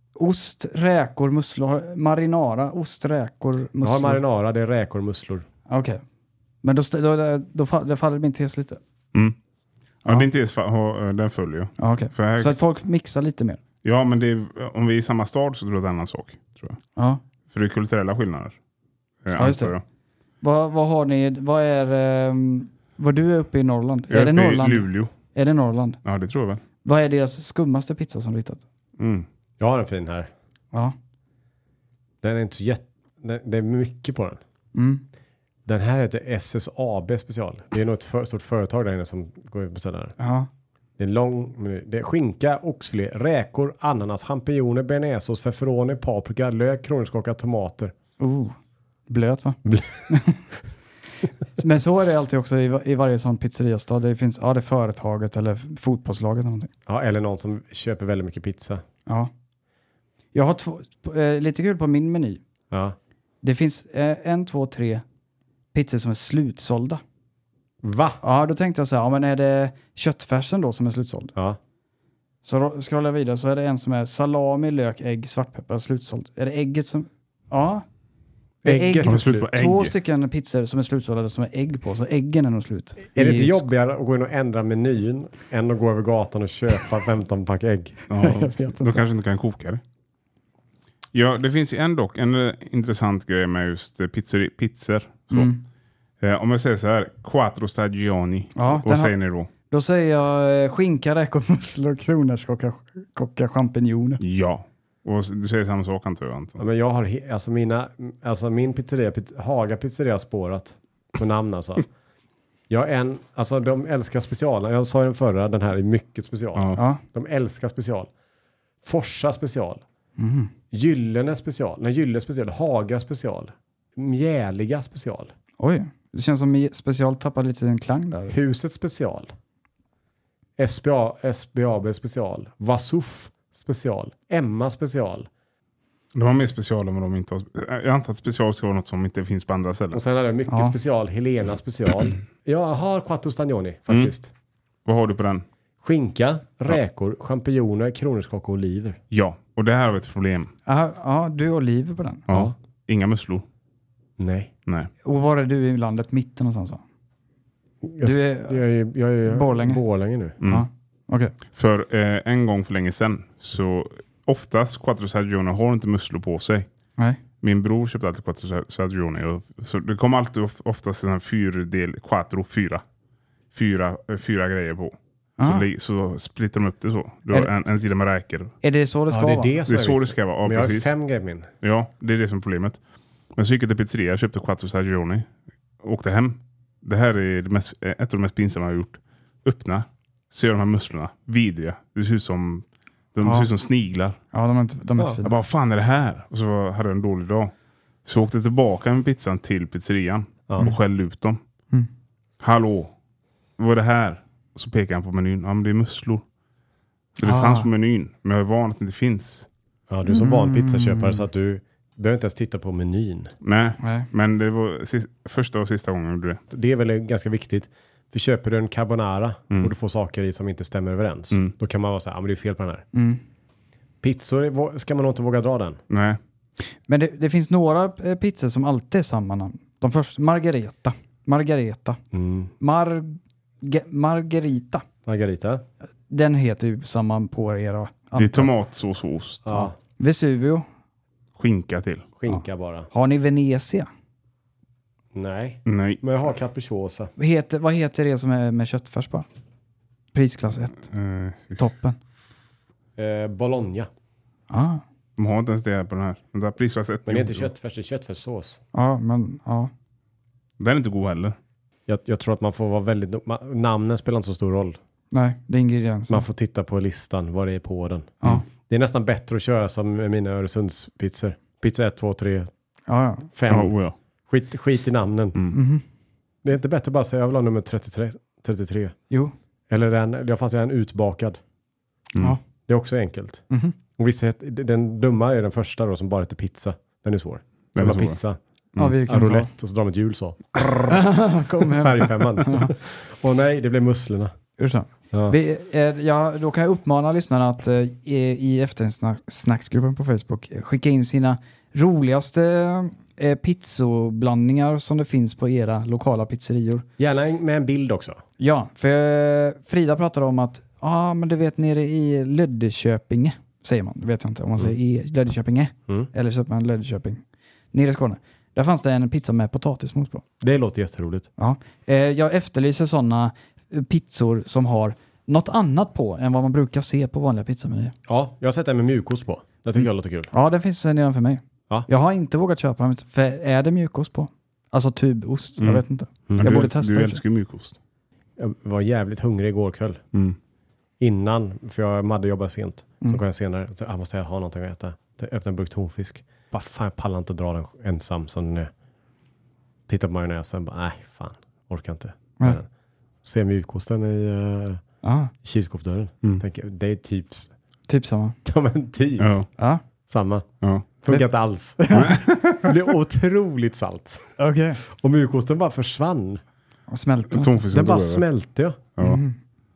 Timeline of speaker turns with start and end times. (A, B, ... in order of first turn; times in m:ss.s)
0:00.2-0:04.2 A
0:03.8-0:05.4 B
0:05.7-0:06.0 A
0:06.6-0:08.8 A
0:10.0-0:12.6 C
0:11.8-0:13.6 A
0:13.8-0:16.8 C
0:17.0-0:17.2 A
0:17.5-0:18.6 C
0:19.2-0:19.8 C
0:19.4-0:19.7 A
0:20.4-0:26.0 A
0:24.1-0:25.1 C
0:26.0-0:26.6 C
0:26.8-0:28.6 A
0:29.0-0:29.3 C
0:29.6-0:30.3 B
0:32.2-0:34.4 B
0:34.7-0:35.0 A
0:35.7-0:40.1 B
0:40.2-0:40.5 A
0:41.0-0:47.9 B
0:48.2-0:48.6 A
0:49.1-0:50.4 A
0:49.6-0:50.1 B
0:51.6-0:56.7 A
0:56.9-0:58.8 B
1:00.3-1:02.4 A
1:02.7-1:03.0 B
1:03.4-1:05.0 A
1:05.7-1:07.0 A
1:07.8-1:08.2 B
1:08.2-1:11.3 A
1:12.4-1:17.8 A
1:18.6-1:19.5 B
1:18.6-1:23.7 A
1:19.0-1:19.9 C
1:23.1-1:28.1 B
1:28.1-1:29.8 C
1:28.2-1:29.0 A
1:31.1-1:35.5 C
1:35.3-1:35.6 A
1:36.2-1:39.5 C
1:38.6-1:39.1 A
1:39.7-1:44.2 A
1:44.2-1:46.6 C
1:46.6-1:51.9 B
1:52.7-1:58.1 B
1:56.8-1:57.0 A
1:58.8-1:59.8 B
2:00.2-2:00.5 A
2:00.7-2:05.3 B
2:05.6-2:08.4 A
2:08.3-2:09.3 B
2:10.6-2:15.3 B
2:16.1-2:20.0 C
2:19.9-2:24.3 B
2:20.5-2:20.7 A
2:23.9-2:24.1 C
2:24.9-2:25.4 C
2:25.8-2:29.0 B
2:29.1-2:30.5 C
2:30.7-2:32.3 A
2:32.3-2:33.4 C
2:34.2-2:34.5 B
2:35.0-2:36.8 A
2:37.8-2:40.4 B
2:38.0-2:38.6 A
2:39.3-2:39.8 A
2:40.4-2:41.3 A
2:40.4-2:40.7 C
2:41.5-2:46.7 C
2:47.4-2:52.8 C
2:53.5-2:58.5 C
2:55.4-2:55.7 A
2:58.6-2:59.5 A
2:59.1-3:01.5 B
2:59.7-3:00.9 C
3:01.6-3:02.8 C
3:03.4-3:05.3 C
3:05.8-3:14.2 C
3:13.2-3:13.5 A
3:14.3-3:15.3 A
3:15.2-3:17.5 C
3:18.0-3:21.4 C
3:22.4-3:22.9 C
3:23.6-3:26.2 C
3:27.2-3:27.7 A
3:27.2-3:29.5 C
3:29.9-3:33.3 B
3:30.1-3:31.2 A
3:33.4-3:36.4 C
3:33.8-3:34.1 A
3:36.5-3:42.8 B
3:42.9-3:43.2 A
3:44.0-3:45.8 B
3:45.9-3:46.2 C
3:46.9-3:52.0 A
3:52.1-3:52.5 B
3:52.6-3:54.8 A
3:55.1-3:55.6 B
3:56.1-3:58.5 A
3:58.2-3:59.6 C
3:59.4-3:59.7 B
3:59.6-4:00.6 A
4:01.4-4:02.1 C
4:02.2-4:02.9 B
4:02.3-4:03.9 A
4:05.1-4:07.1 B
4:05.7-4:06.0 C
4:07.2-4:09.3 A
4:10.1-4:10.9 A
4:10.9-4:11.6 C
4:11.6-4:12.0 A
4:13.0-4:13.9 B
4:14.5-4:14.8 A
4:15.2-4:17.5 C
4:17.1-4:18.6 B
4:18.7-4:19.7 A
4:20.6-4:21.4 C
4:21.9-4:24.8 B
4:25.1-4:26.2 A
4:26.1-4:32.5 B
4:32.9-4:33.3 A
4:33.3-4:33.7 B
4:33.5-4:34.0 C
4:34.3-4:35.4 B
4:35.5-4:35.8 A
4:36.4-4:39.0 B
4:39.7-4:41.4 B
4:42.7-4:43.4 B
4:44.0-4:48.4 B
4:47.8-4:48.2 C
4:48.8-4:49.5 A
4:49.0-4:54.3 B
4:50.9-4:52.7 A
4:54.6-5:06.9 A
4:55.1-4:55.4 B
5:07.0-5:08.2 B
5:08.4-5:17.2 A
5:17.7-5:20.2 A
5:20.4-5:21.3 B
5:21.4-5:27.9 A
5:28.1-5:30.3 B
5:30.3-5:37.2 A
5:36.3-5:36.6 B
5:36.4-5:37.8 C
5:38.4-5:40.0 B
5:41.0-5:48.7 B
5:49.9-5:52.7 B
5:53.2-5:54.8 B
5:55.0-5:55.3 A
5:55.4-5:57.5 B
5:57.9-5:58.4 A
5:58.4-5:59.3 B
5:59.2-5:59.5 C
6:00.1-6:06.4 B
6:01.8-6:02.2 A
6:01.9-6:02.7 C
6:04.4-6:04.8 A
6:06.9-6:07.6 A
6:07.3-6:08.2 C
6:07.7-6:08.8 B
6:09.0-6:09.2 C
6:09.0-6:09.4 A